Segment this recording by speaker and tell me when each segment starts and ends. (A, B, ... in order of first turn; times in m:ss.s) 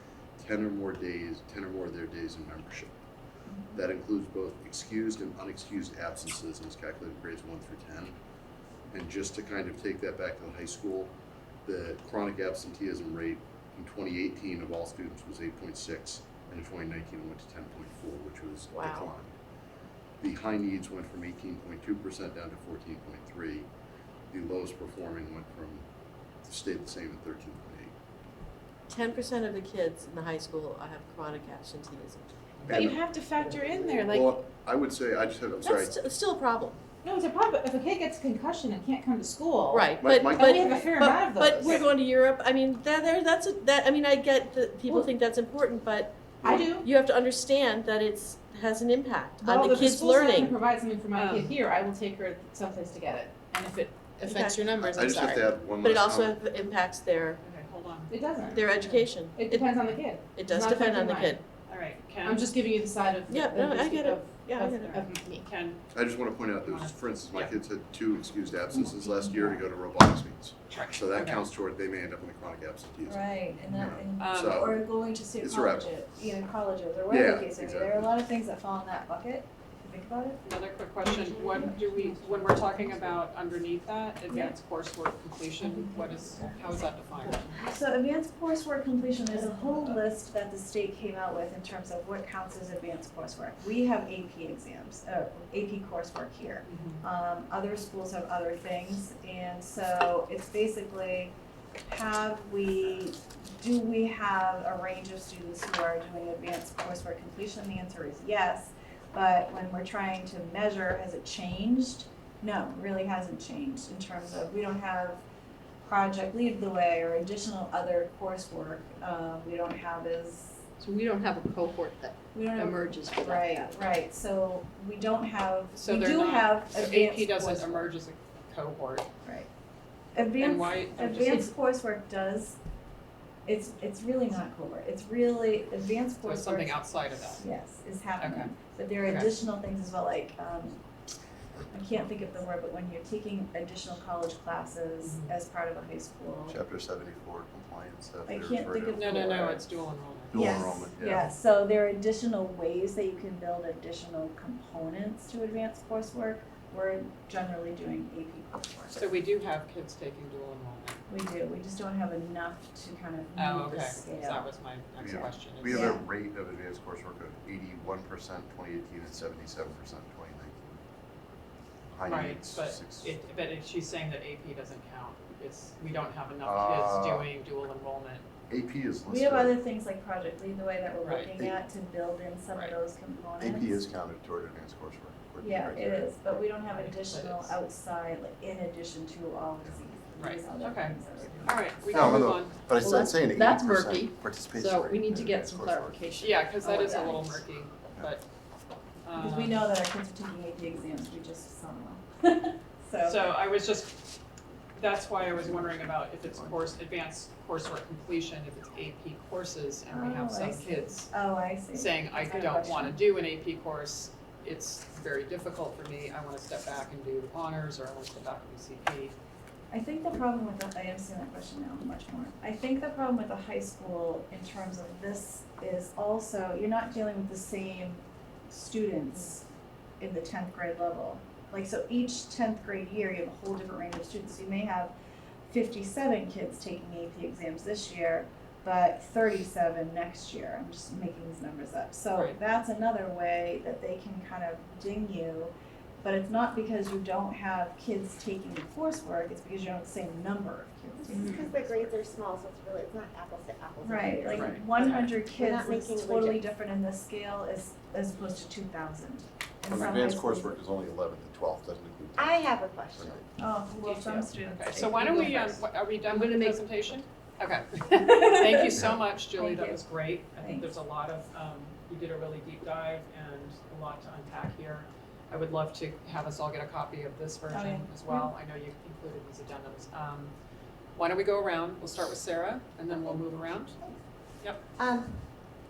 0:00.4-0:02.9 A
0:03.5-0:03.8 B
0:03.7-0:08.2 A
0:08.9-0:11.1 A
0:11.6-0:19.3 A
0:18.7-0:19.1 C
0:20.2-0:23.7 A
0:24.3-0:25.9 A
0:26.4-0:27.9 A
0:28.9-0:32.3 C
0:32.6-0:33.0 A
0:32.7-0:34.4 D
0:34.0-0:36.0 A
0:35.6-0:36.8 C
0:37.0-0:41.9 D
0:39.7-0:50.6 C
0:40.0-0:41.9 A
0:46.4-0:46.9 D
0:49.4-0:55.5 D
0:51.1-0:51.6 E
0:54.2-0:54.7 C
0:54.8-0:56.4 A
0:55.7-0:57.4 C
0:57.4-0:58.6 E
0:58.1-1:01.4 D
0:58.5-1:01.4 C
1:01.6-1:02.6 E
1:02.2-1:05.4 D
1:03.3-1:05.1 C
1:04.8-1:05.9 E
1:05.9-1:14.8 A
1:06.6-1:07.5 E
1:08.7-1:09.7 B
1:10.7-1:11.4 E
1:13.1-1:20.5 B
1:14.2-1:14.6 E
1:15.4-1:16.0 A
1:17.1-1:18.2 A
1:20.4-1:27.6 E
1:21.0-1:23.2 D
1:24.3-1:24.6 B
1:25.6-1:26.6 D
1:26.0-1:26.8 B
1:27.5-1:41.3 B
1:29.4-1:29.9 D
1:36.7-1:37.0 E
1:41.9-1:55.2 B
1:55.8-2:00.6 B
2:00.8-2:03.8 F
2:02.3-2:07.9 B
2:05.8-2:09.1 E
2:10.1-2:12.6 B
2:10.4-2:11.5 E
2:13.5-2:20.8 B
2:16.2-2:17.4 E
2:18.2-2:18.5 E
2:19.0-2:19.4 E
2:21.7-2:26.6 B
2:25.0-2:25.3 E
2:26.5-2:29.1 A
2:28.2-2:29.6 B
2:28.9-2:31.2 E
2:30.3-2:31.2 A
2:30.3-2:39.1 B
2:38.9-2:41.0 E
2:41.1-2:44.5 B
2:43.4-2:45.9 E
2:45.0-2:50.8 A
2:45.7-2:46.0 B
2:51.9-2:53.2 A
2:52.1-2:58.2 E
2:56.4-2:57.3 A
2:58.5-2:59.6 A
2:59.1-3:03.8 B
3:01.0-3:01.3 E
3:03.4-3:06.4 A
3:05.4-3:11.8 B
3:06.7-3:07.6 E
3:10.2-3:12.6 E
3:11.9-3:16.1 A
3:12.8-3:17.4 F
3:16.2-3:18.2 E
3:19.0-3:19.7 E
3:19.2-3:23.3 B
3:23.0-3:24.2 E
3:24.8-3:31.1 E
3:29.9-3:33.0 B
3:31.7-3:39.2 E
3:39.7-3:49.5 B
3:50.0-3:54.9 B
3:55.5-4:11.6 B
4:11.1-4:16.4 G
4:11.2-4:11.4 D
4:13.8-4:20.6 B
4:14.3-4:15.1 E
4:19.7-4:22.4 A
4:22.2-4:23.2 G
4:23.0-4:23.2 A
4:23.4-4:25.6 B
4:23.8-4:40.3 E
4:28.0-4:29.8 B
4:30.4-4:30.7 B
4:37.5-4:38.3 B
4:40.9-4:43.8 E
4:44.8-4:45.2 G